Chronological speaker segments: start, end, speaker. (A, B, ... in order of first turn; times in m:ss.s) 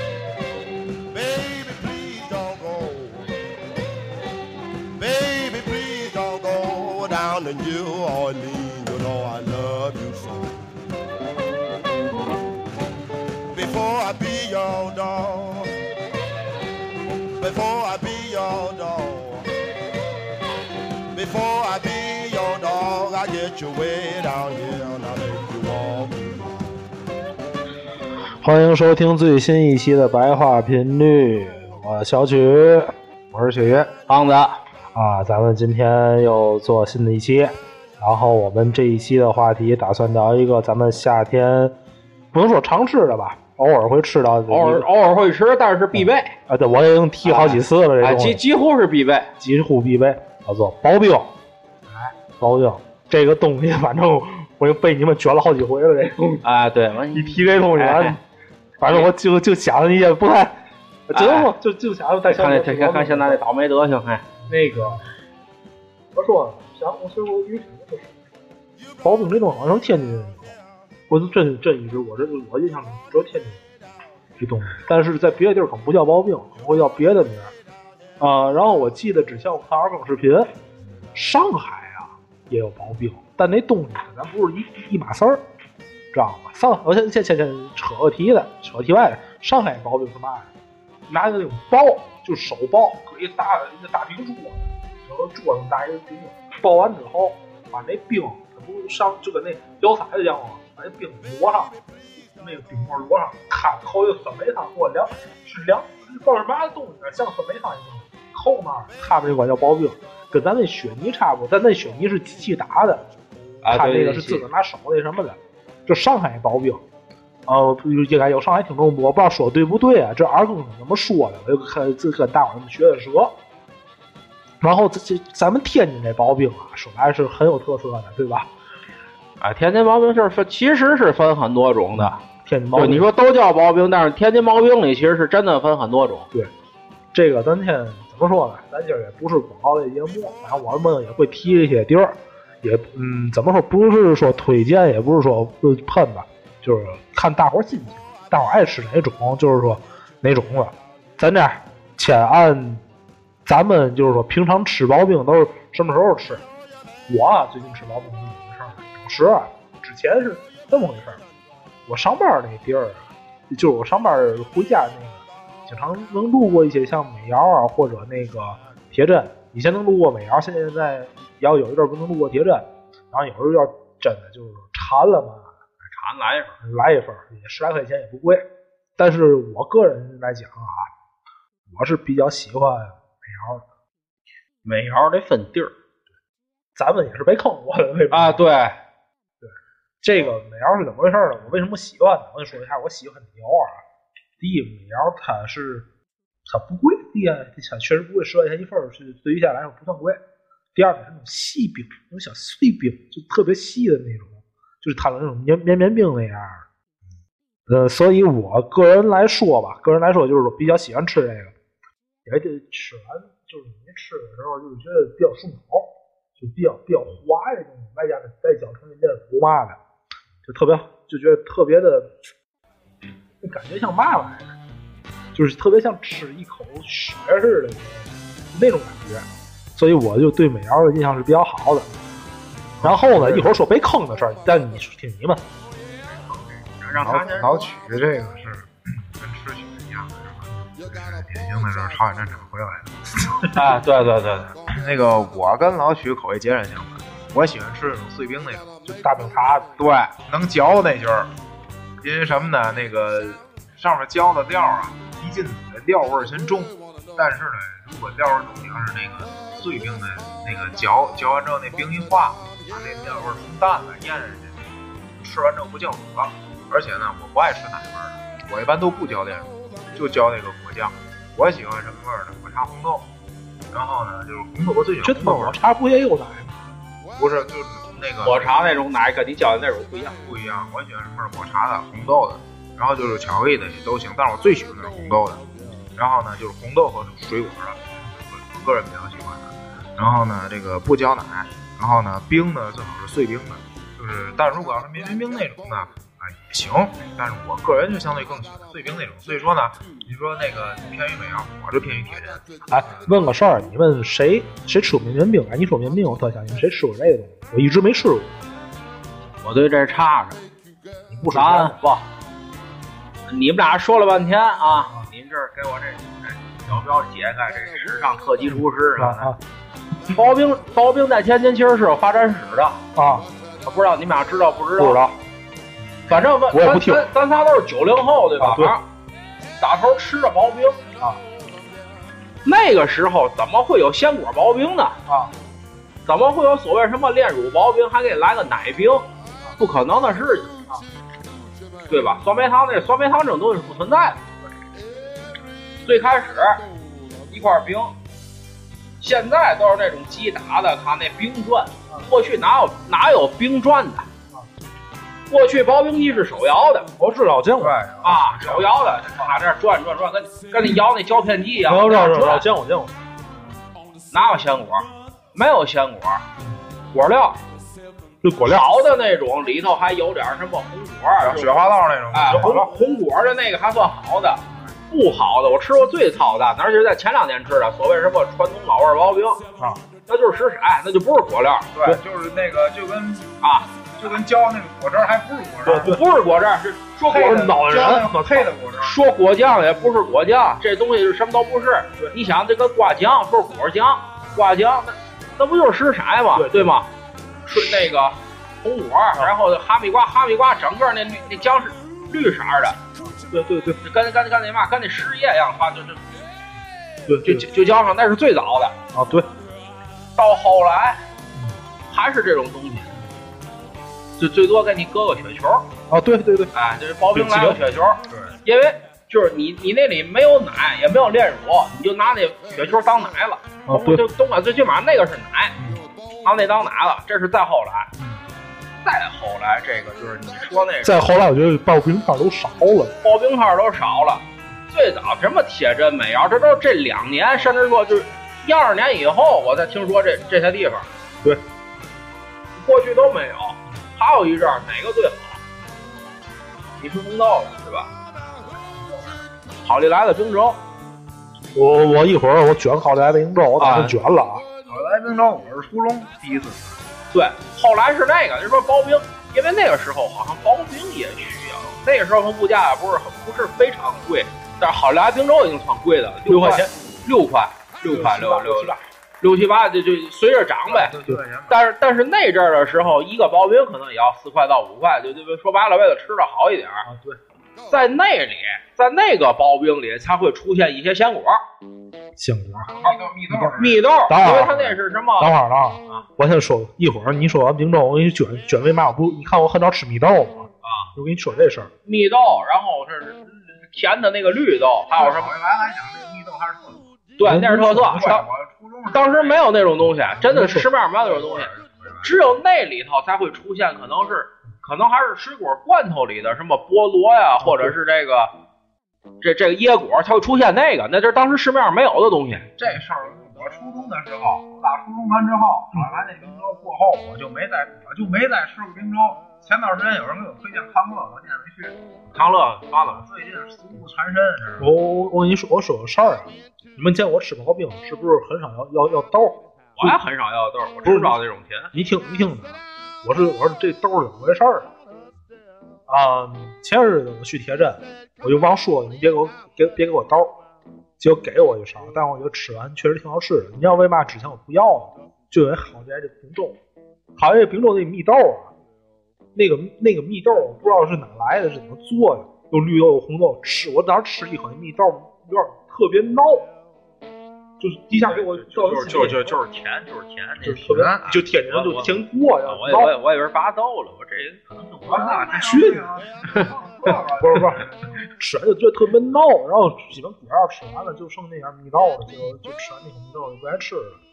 0:01.1-0:03.3 A
0:05.0-0:10.6 A
0:13.5-0:15.8 A
0:17.4-0:19.5 A
0:21.1-0:26.8 A
0:28.4-0:33.9 B
0:34.1-0:34.6 C
0:35.0-0:41.7 B
0:42.3-0:44.9 B
0:44.5-0:46.4 C
0:46.0-0:48.4 B
0:47.2-0:49.3 C
0:49.4-0:51.3 B
0:52.4-0:56.4 B
0:56.4-0:58.2 C
0:57.1-0:58.2 B
0:58.8-1:00.6 B
0:58.8-0:59.1 C
1:01.1-1:03.4 B
1:01.1-1:01.5 C
1:02.3-1:05.0 C
1:04.5-1:05.0 B
1:06.2-1:08.1 B
1:09.0-1:10.5 B
1:11.1-1:13.6 B
1:14.4-1:17.5 B
1:18.2-1:20.5 B
1:21.2-1:25.4 B
1:26.1-1:30.5 B
1:31.1-1:41.8 B
1:42.4-1:53.1 B
1:53.6-1:54.4 C
1:53.7-1:56.8 B
1:57.5-2:03.4 B
2:04.6-2:08.5 B
2:09.4-2:12.2 C
2:12.0-2:13.1 B
2:12.8-2:16.3 C
2:17.1-2:32.8 B
2:33.5-2:36.4 B
2:37.1-2:41.2 B
2:41.9-2:55.5 B
2:55.9-2:56.6 C
2:56.6-2:58.4 B
2:59.0-3:00.9 B
3:01.7-3:03.6 B
3:04.6-3:05.7 C
3:06.8-3:08.4 B
3:08.1-3:08.8 C
3:09.4-3:13.8 B
3:14.4-3:15.9 B
3:16.5-3:20.2 B
3:20.8-3:26.6 B
3:27.7-3:31.5 B
3:32.2-3:39.8 B
3:40.5-3:42.1 B
3:43.4-3:44.5 B
3:45.4-3:51.9 B
3:52.8-3:53.5 D
3:52.8-3:55.4 B
3:56.1-3:57.6 C
3:57.0-4:03.3 D
4:03.5-4:04.5 C
4:04.7-4:08.7 D
4:08.8-4:09.7 B
4:09.8-4:11.3 D
4:12.0-4:33.1 D
4:33.7-4:35.6 D
4:35.0-4:36.6 B
4:37.2-4:38.5 D
4:38.2-4:40.2 C
4:40.2-4:45.4 D
4:46.0-5:02.4 D
5:02.7-5:08.4 B
5:09.4-5:10.4 C
5:11.1-5:11.8 B
5:11.3-5:12.1 C
5:13.3-5:19.4 C
5:19.0-5:19.4 B
5:20.1-5:22.8 C
5:23.0-5:23.3 B
5:23.6-5:25.0 C
5:24.8-5:25.2 B
5:26.1-5:28.8 C
5:26.5-5:27.1 B
5:28.4-5:28.8 B
5:29.6-5:30.8 C
5:32.4-5:35.0 C
5:35.1-5:35.3 B
5:36.1-5:39.1 C
5:39.6-5:40.5 C
5:41.9-5:44.2 C
5:45.8-5:46.6 C
5:47.3-5:47.9 C
5:49.0-5:54.1 C
5:55.3-5:56.9 C
5:57.0-5:57.8 B
5:57.6-5:58.9 D
5:58.0-6:02.5 C
6:01.7-6:03.0 B
6:04.1-6:06.3 C
6:06.9-6:07.4 C
6:08.2-6:08.6 B
6:08.4-6:19.4 C
6:11.2-6:12.6 D
6:12.2-6:12.7 B
6:20.1-6:21.7 C
6:21.7-6:23.3 D
6:23.4-6:23.7 C
6:24.0-6:26.0 D
6:25.6-6:26.0 B
6:25.8-6:27.9 C
6:27.1-6:29.0 D
6:27.1-6:28.5 B
6:28.8-6:36.9 C
6:36.4-6:36.7 B
6:37.4-6:42.8 C
6:37.5-6:37.9 B
6:43.0-6:43.8 B
6:43.8-6:46.0 C
6:47.1-6:47.5 B
6:47.2-6:48.8 C
6:48.9-6:49.3 B
6:50.2-6:51.0 C
6:51.9-6:52.9 C
6:54.2-6:55.7 C
6:55.9-6:56.5 B
6:56.5-7:05.6 C
6:57.1-6:57.6 B
7:03.7-7:04.0 B
7:06.2-7:07.9 C
7:08.8-7:11.1 C
7:10.8-7:13.0 B
7:13.0-7:20.9 C
7:22.6-7:25.4 C
7:26.8-7:27.9 C
7:29.6-7:30.6 C
7:31.6-7:34.4 B
7:33.6-7:34.0 C
7:34.7-7:36.8 D
7:37.1-7:51.0 C
7:46.3-7:46.7 B
7:47.8-7:48.8 B
7:50.7-7:51.6 D
7:51.5-7:56.8 C
7:56.8-7:57.2 B
7:57.7-8:01.4 C
8:02.2-8:02.7 B
8:02.7-8:03.8 D
8:03.3-8:11.7 B
8:03.6-8:05.3 C
8:10.6-8:10.9 C
8:11.9-8:15.3 C
8:14.9-8:16.8 D
8:17.2-8:18.2 C
8:17.2-8:18.2 B
8:17.9-8:20.1 D
8:18.9-8:28.3 C
8:20.2-8:20.7 B
8:21.0-8:22.2 D
8:27.4-8:27.7 B
8:29.2-8:32.5 C
8:32.6-8:41.8 D
8:42.1-8:43.0 C
8:42.9-8:44.7 D
8:44.6-8:50.0 B
8:49.8-8:51.7 C
8:50.8-8:51.2 B
8:51.7-8:54.7 B
8:55.9-9:00.3 B
9:01.0-9:06.6 B
9:07.2-9:08.5 B
9:09.4-9:16.5 B
9:17.6-9:19.4 B
9:18.0-9:20.8 C
9:20.4-9:22.9 B
9:20.7-9:21.2 D
9:21.4-9:25.4 C
9:24.9-9:27.9 D
9:25.0-9:25.9 B
9:27.2-9:27.7 B
9:28.2-9:34.0 B